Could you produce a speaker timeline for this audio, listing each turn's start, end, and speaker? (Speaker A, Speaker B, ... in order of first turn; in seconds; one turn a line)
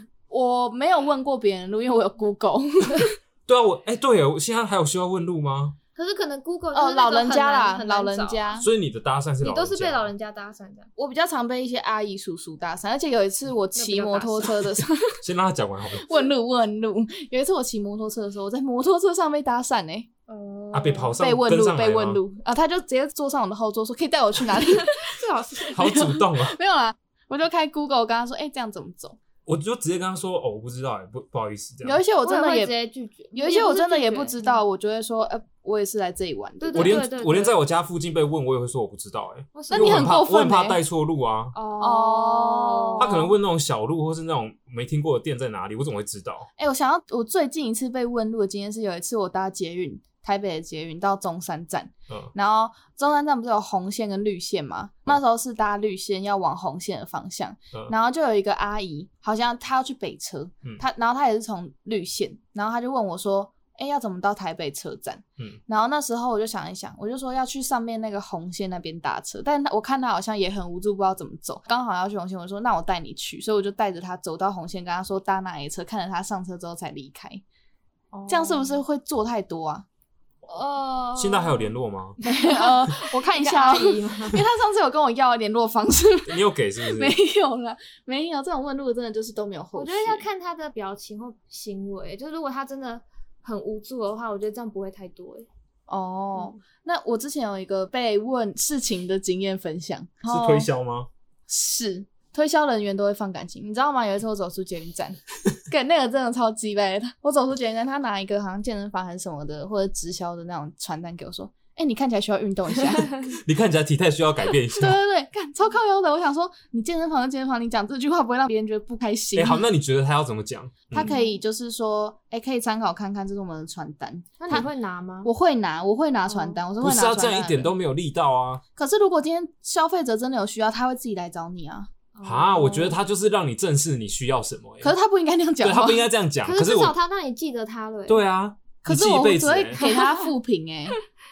Speaker A: 0.3-3.2
Speaker B: 3.5-5.8
Speaker C: 6.0-8.6
Speaker A: 6.7-8.7
Speaker B: 8.6-10.1
Speaker C: 9.4-10.9
Speaker A: 11.0-15.2
Speaker C: 13.7-14.7
Speaker B: 15.2-16.2
Speaker A: 16.0-20.1
Speaker C: 20.3-21.1
Speaker B: 20.7-22.2
Speaker A: 21.2-25.2
Speaker C: 24.6-25.8
Speaker B: 25.7-26.6
Speaker A: 25.8-29.2
Speaker B: 29.5-32.0
Speaker A: 31.8-32.8
Speaker C: 32.2-34.6
Speaker A: 33.3-37.0
Speaker C: 36.6-37.5
Speaker B: 36.8-41.6
Speaker C: 39.5-40.2
Speaker A: 39.7-40.8
Speaker C: 41.5-43.2
Speaker A: 41.8-43.3
Speaker B: 43.0-46.5
Speaker A: 46.6-77.4
Speaker C: 78.1-78.8
Speaker A: 78.3-79.9
Speaker C: 80.5-84.5
Speaker B: 81.2-82.2
Speaker A: 82.2-90.3
Speaker B: 86.3-87.2
Speaker C: 89.8-95.5
Speaker A: 95.9-100.7
Speaker B: 100.3-101.1
Speaker A: 101.5-113.4
Speaker B: 113.3-115.0
Speaker A: 114.7-119.7
Speaker B: 119.3-121.2
Speaker A: 120.9-124.7
Speaker C: 121.0-121.3
Speaker C: 124.4-125.3
Speaker A: 125.2-127.7
Speaker C: 126.3-126.6
Speaker B: 126.8-128.6
Speaker A: 128.8-131.9
Speaker C: 132.2-133.0
Speaker B: 132.2-135.0
Speaker A: 134.8-136.1
Speaker B: 135.6-136.9
Speaker C: 136.4-138.2
Speaker B: 138.1-139.8
Speaker A: 138.8-141.0
Speaker C: 139.8-140.3